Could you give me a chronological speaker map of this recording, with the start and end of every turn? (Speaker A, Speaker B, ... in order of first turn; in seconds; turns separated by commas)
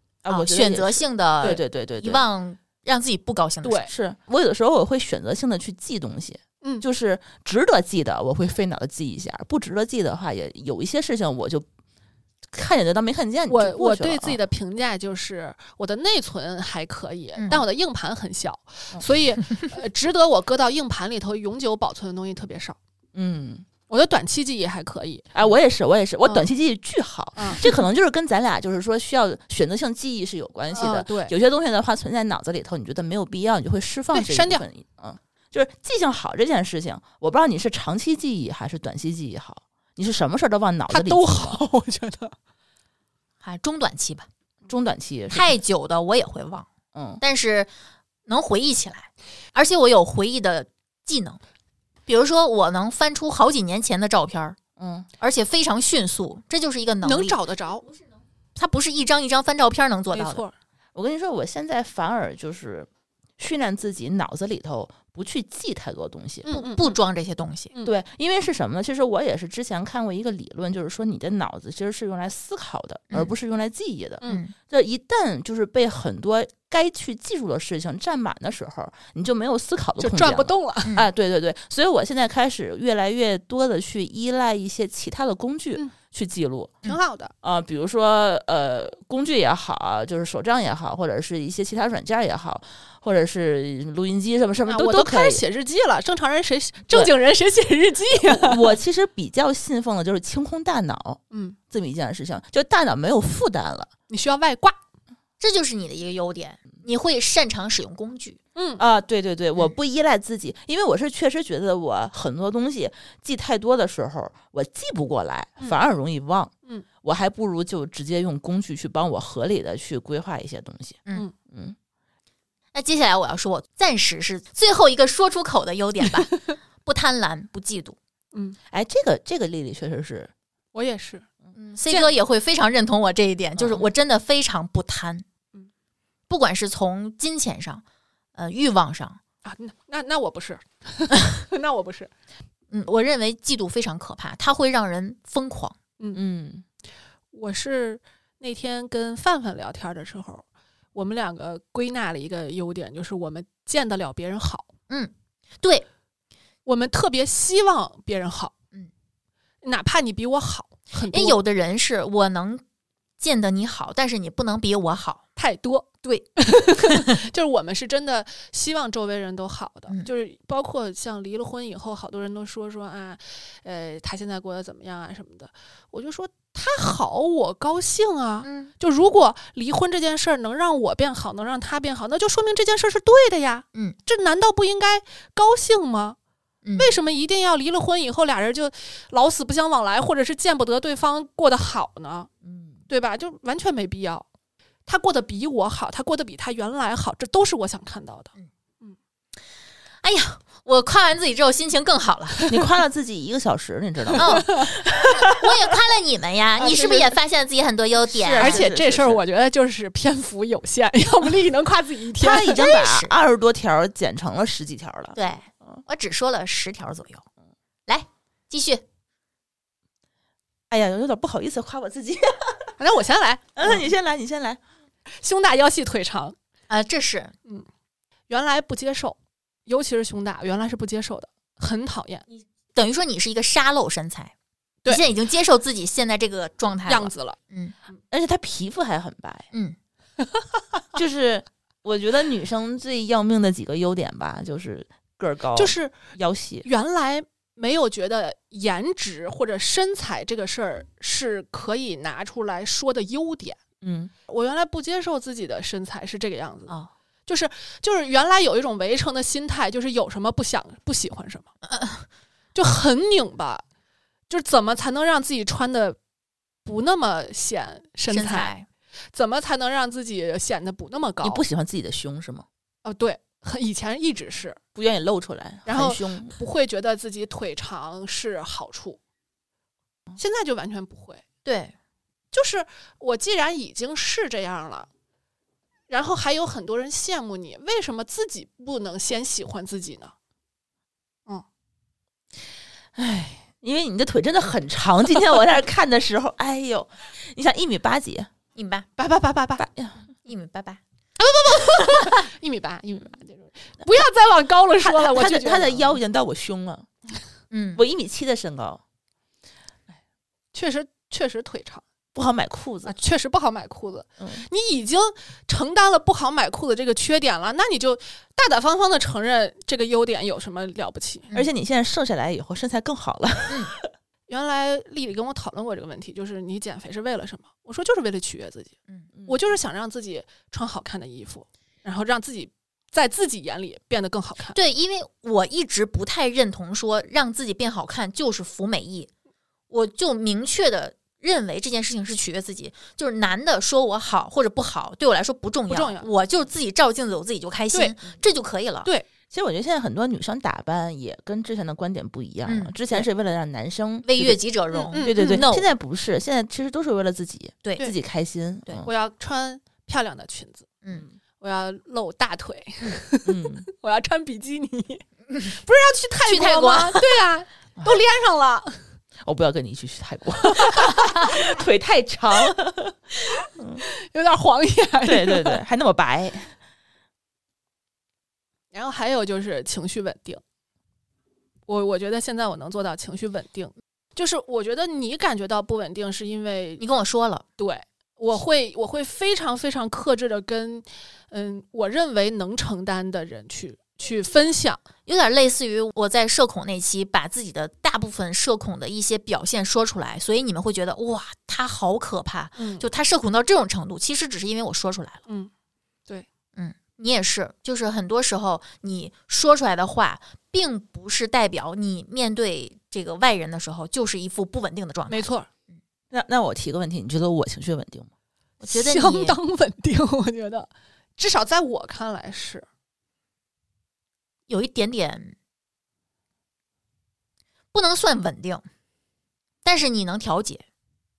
Speaker A: 0.2-2.2, Speaker B: 0.3-3.9, Speaker C: 3.6-3.9, Speaker A: 3.9-11.7, Speaker A: 12.5-14.4, Speaker C: 13.5-22.8, Speaker B: 17.4-17.6, Speaker A: 23.1-23.7, Speaker C: 23.9-25.3, Speaker A: 25.4-41.6, Speaker C: 27.4-27.7, Speaker C: 30.7-31.3, Speaker C: 34.1-34.6, Speaker C: 40.9-42.3, Speaker B: 43.4-44.3, Speaker A: 44.7-45.5, Speaker B: 45.3-46.7, Speaker A: 46.9-47.2, Speaker B: 47.2-47.7, Speaker B: 48.3-51.4, Speaker B: 52.1-54.6, Speaker A: 54.8-55.1, Speaker B: 55.2-57.4, Speaker C: 57.0-57.9, Speaker B: 58.6-60.4, Speaker C: 60.1-60.5, Speaker A: 61.0-66.5, Speaker C: 66.5-67.0, Speaker B: 66.5-67.7, Speaker A: 67.8-86.8, Speaker B: 74.2-74.5, Speaker C: 80.0-81.0, Speaker C: 86.8-87.3, Speaker A: 87.4-95.4, Speaker C: 94.7-98.7, Speaker A: 98.2-103.9, Speaker C: 101.3-101.6, Speaker C: 104.1-104.8, Speaker B: 105.4-108.4, Speaker C: 108.6-108.8, Speaker A: 108.8-116.5, Speaker A: 117.0-121.0, Speaker A: 121.5-121.8, Speaker B: 122.7-128.0, Speaker A: 128.7-130.3, Speaker C: 130.7-131.3, Speaker B: 131.6-135.2, Speaker A: 133.6-133.8, Speaker B: 136.3-137.8, Speaker B: 138.3-139.2, Speaker C: 139.4-142.1, Speaker B: 142.7-145.8, Speaker A: 146.1-146.6, Speaker C: 147.3-150.4, Speaker C: 150.9-154.7, Speaker B: 154.9-155.9, Speaker C: 156.7-158.5, Speaker C: 159.6-161.4, Speaker B: 161.1-162.6, Speaker B: 163.2-165.2, Speaker C: 165.4-186.2, Speaker B: 178.4-178.7, Speaker B: 186.7-186.9, Speaker C: 186.8-192.3, Speaker B: 192.4-192.8, Speaker C: 192.9-194.3, Speaker C: 194.9-198.9, Speaker B: 200.0-202.5, Speaker A: 202.5-205.4, Speaker C: 204.2-204.7, Speaker B: 204.2-208.7, Speaker C: 206.6-207.1, Speaker A: 208.1-209.2, Speaker C: 208.3-212.6, Speaker A: 212.2-215.2, Speaker B: 212.4-213.2, Speaker B: 215.2-217.2, Speaker B: 217.9-218.8, Speaker A: 220.7-222.7, Speaker C: 222.8-223.9, Speaker A: 223.6-224.6, Speaker C: 225.1-226.4, Speaker B: 226.7-227.3, Speaker C: 228.3-232.2, Speaker B: 232.8-234.3, Speaker B: 234.9-237.7, Speaker C: 236.9-237.4, Speaker A: 238.1-239.5, Speaker A: 240.9-246.7, Speaker C: 245.6-245.9, Speaker C: 246.6-253.6, Speaker A: 253.8-254.1, Speaker C: 254.3-256.7, Speaker C: 257.3-261.5, Speaker B: 261.7-262.1, Speaker C: 262.6-263.6, Speaker C: 264.3-266.0, Speaker C: 266.6-268.5, Speaker B: 268.1-268.7, Speaker C: 269.1-271.4, Speaker A: 271.2-272.4, Speaker C: 272.8-274.6, Speaker A: 274.8-276.3, Speaker C: 275.7-279.0, Speaker C: 280.2-281.2, Speaker B: 281.4-281.7, Speaker C: 282.3-284.9, Speaker C: 285.9-290.1, Speaker A: 292.9-298.3, Speaker B: 298.6-298.9, Speaker C: 299.0-299.7, Speaker A: 299.6-300.0, Speaker B: 300.2-300.8, Speaker C: 301.2-306.0, Speaker A: 304.9-306.9, Speaker B: 307.5-307.8, Speaker A: 307.8-308.8, Speaker C: 310.5-311.8, Speaker A: 312.1-312.9, Speaker C: 312.9-321.3, Speaker A: 314.2-314.5, Speaker A: 321.3-323.9, Speaker C: 324.3-328.8, Speaker C: 329.3-334.6, Speaker B: 334.5-339.1, Speaker B: 339.7-348.9, Speaker C: 345.7-346.1, Speaker C: 347.7-348.0, Speaker A: 349.3-354.4, Speaker B: 352.5-352.8, Speaker B: 354.0-355.7, Speaker C: 354.9-355.4, Speaker A: 355.0-358.9, Speaker B: 357.6-357.9, Speaker C: 358.9-360.7, Speaker C: 361.4-365.0, Speaker A: 363.2-363.7, Speaker B: 365.3-365.6, Speaker C: 365.6-368.8, Speaker B: 366.3-367.1, Speaker A: 369.2-373.0, Speaker C: 370.7-371.2, Speaker A: 373.6-373.8, Speaker C: 373.8-375.6, Speaker A: 375.0-376.5, Speaker C: 378.7-380.4, Speaker C: 381.7-386.8, Speaker B: 386.8-387.4, Speaker C: 387.6-394.8, Speaker B: 395.1-405.2, Speaker C: 402.6-402.9, Speaker B: 406.6-415.8, Speaker C: 415.1-415.5, Speaker A: 416.1-418.1, Speaker B: 418.6-419.4, Speaker C: 418.7-422.7, Speaker B: 424.5-425.4, Speaker B: 427.7-428.6, Speaker B: 429.6-430.6